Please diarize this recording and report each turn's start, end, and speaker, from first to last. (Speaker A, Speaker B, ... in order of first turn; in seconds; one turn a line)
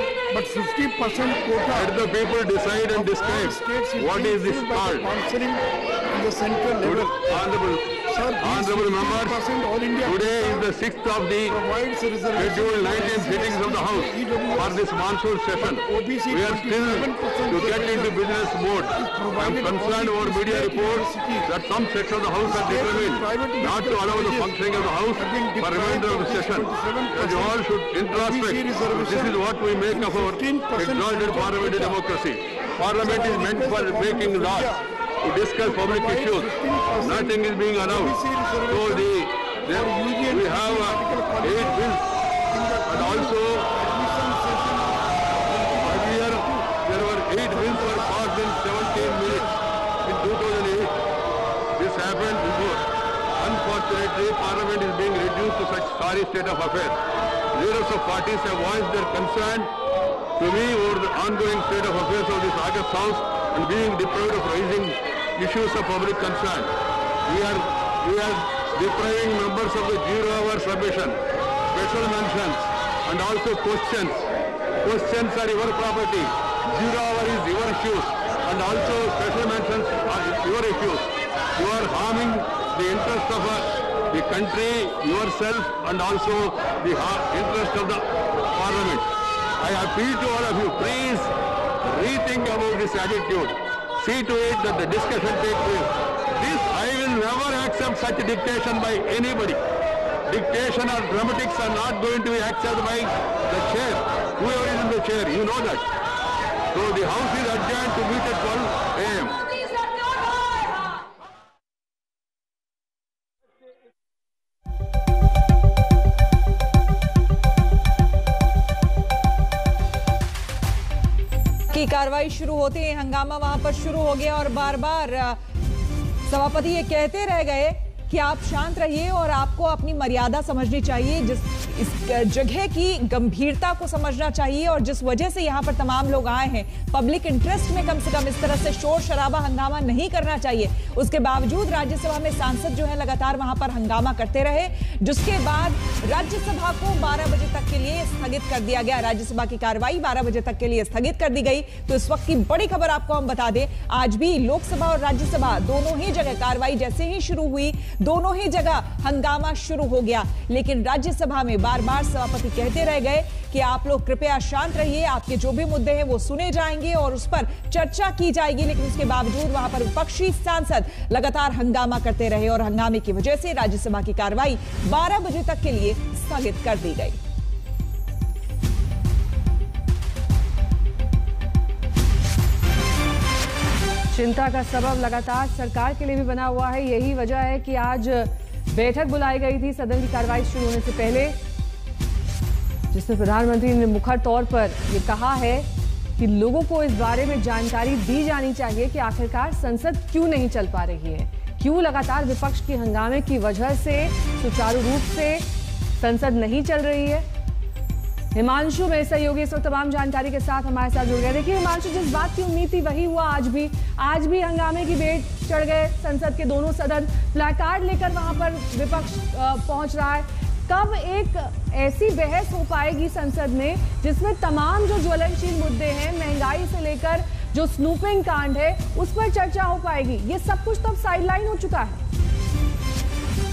Speaker A: 0.3-2.0
Speaker B: 1.7-5.1
Speaker A: 2.8-7.2
Speaker B: 6.8-9.4
Speaker A: 8.0-10.7
Speaker B: 10.0-11.6
Speaker A: 11.4-14.9
Speaker B: 12.3-34.7
Speaker A: 15.6-18.2
Speaker A: 18.9-21.6
Speaker A: 22.4-24.6
Speaker A: 25.1-32.0
Speaker A: 32.8-34.9
Speaker B: 35.2-42.0
Speaker A: 35.5-39.1
Speaker A: 39.7-41.9
Speaker A: 42.5-46.7
Speaker B: 42.9-43.7
Speaker B: 45.8-49.5
Speaker A: 47.3-49.5
Speaker B: 50.0-50.9
Speaker B: 51.8-52.9
Speaker B: 53.4-57.0
Speaker B: 57.5-59.7
Speaker B: 60.4-66.7
Speaker B: 67.3-74.3
Speaker B: 74.8-89.1
Speaker B: 89.6-91.3
Speaker B: 91.8-99.6
Speaker B: 100.3-105.9
Speaker B: 106.7-109.4
Speaker C: 121.7-125.4
Speaker C: 126.3-177.2
Speaker D: 184.1-191.4
Speaker D: 192.9-205.5
Speaker D: 206.0-207.3
Speaker D: 208.3-232.0